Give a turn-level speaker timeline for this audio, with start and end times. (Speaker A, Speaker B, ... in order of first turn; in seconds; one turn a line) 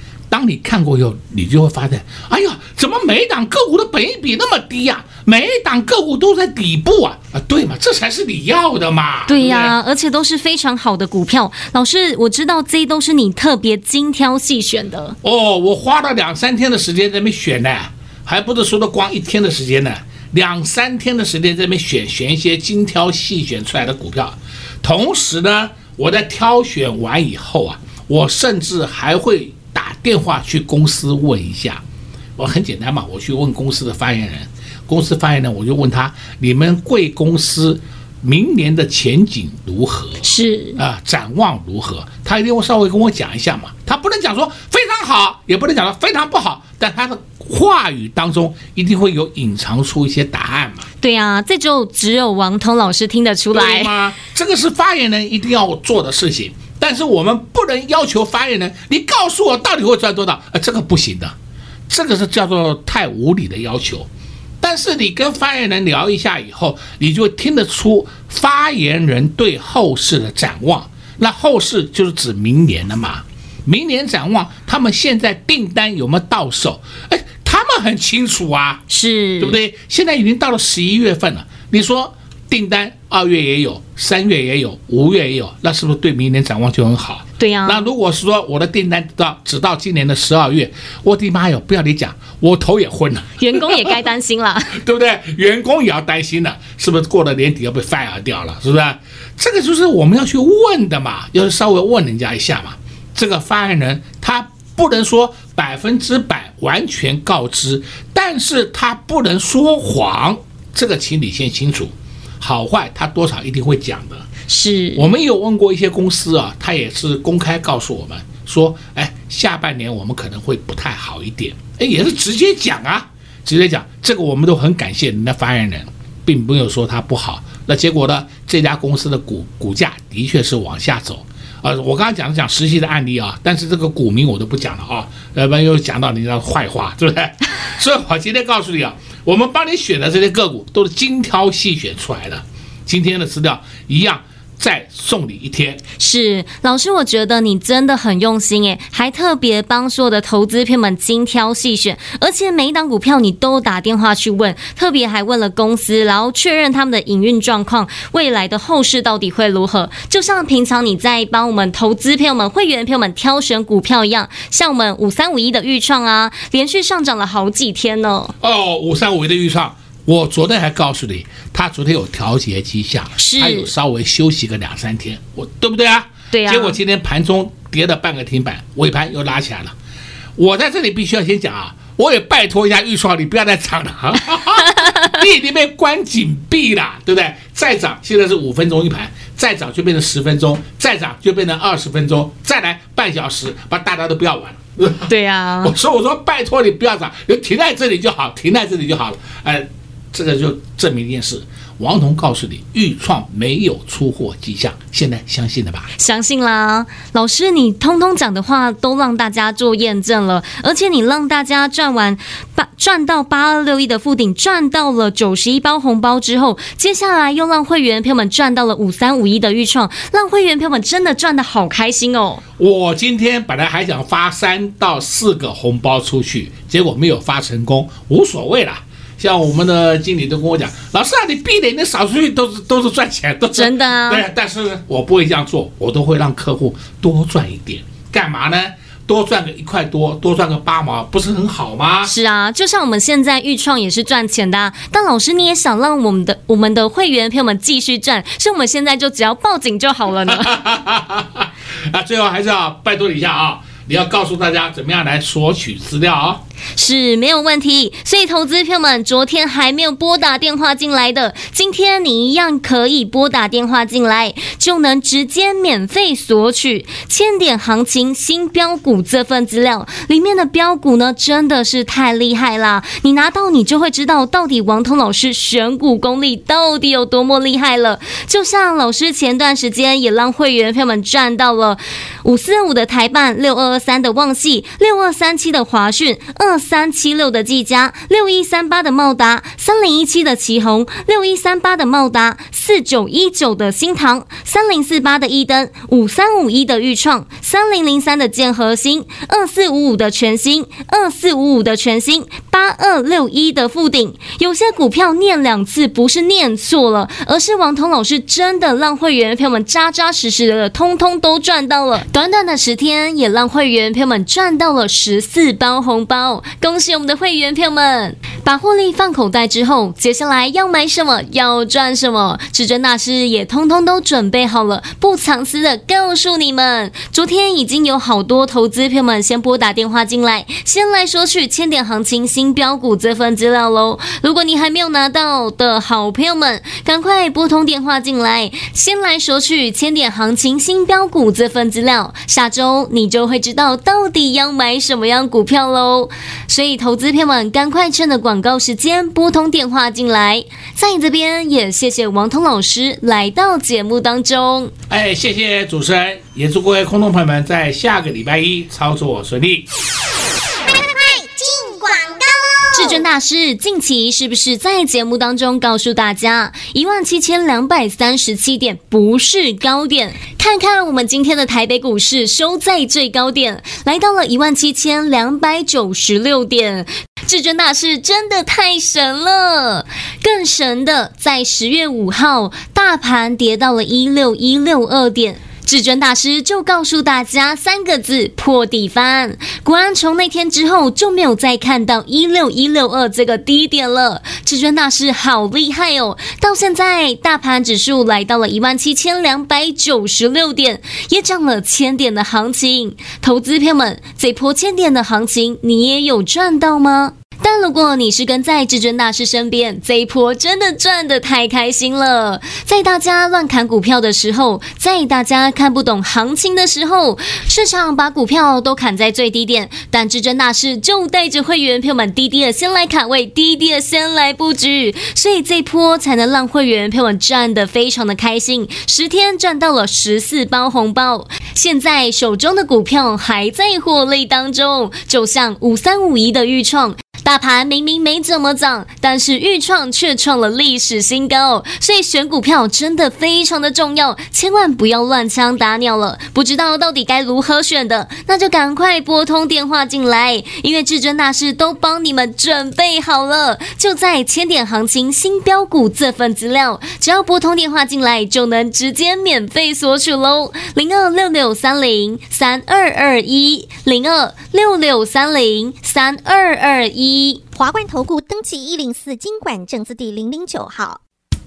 Speaker A: 0.3-9.8
Speaker B: 9.3-15.2
Speaker A: 15.2-31.8
Speaker A: 32.4-40.2
Speaker B: 40.2-40.8
Speaker A: 40.8-50.9
Speaker B: 51.0-53.9
Speaker A: 53.5-61.3
Speaker A: 61.9-64.1
Speaker A: 64.6-78.8
Speaker B: 78.9-79.6
Speaker A: 79.4-94.0
Speaker B: 87.4-87.9
Speaker B: 93.4-94.8
Speaker A: 94.7-114.3
Speaker B: 114.5-115.0
Speaker A: 114.9-145.8
Speaker B: 146.0-168.3
Speaker A: 168.4-179.7
Speaker B: 173.2-173.7
Speaker B: 176.3-176.8
Speaker A: 180.4-205.9
Speaker B: 184.7-185.1
Speaker B: 195.1-195.7
Speaker B: 206.0-222.4
Speaker A: 222.6-242.1
Speaker B: 233.5-234.2
Speaker B: 242.0-250.6
Speaker A: 250.2-256.4
Speaker B: 256.8-354.7
Speaker A: 354.9-359.7
Speaker C: 360.7-363.0
Speaker B: 362.7-467.4
Speaker C: 467.5-471.0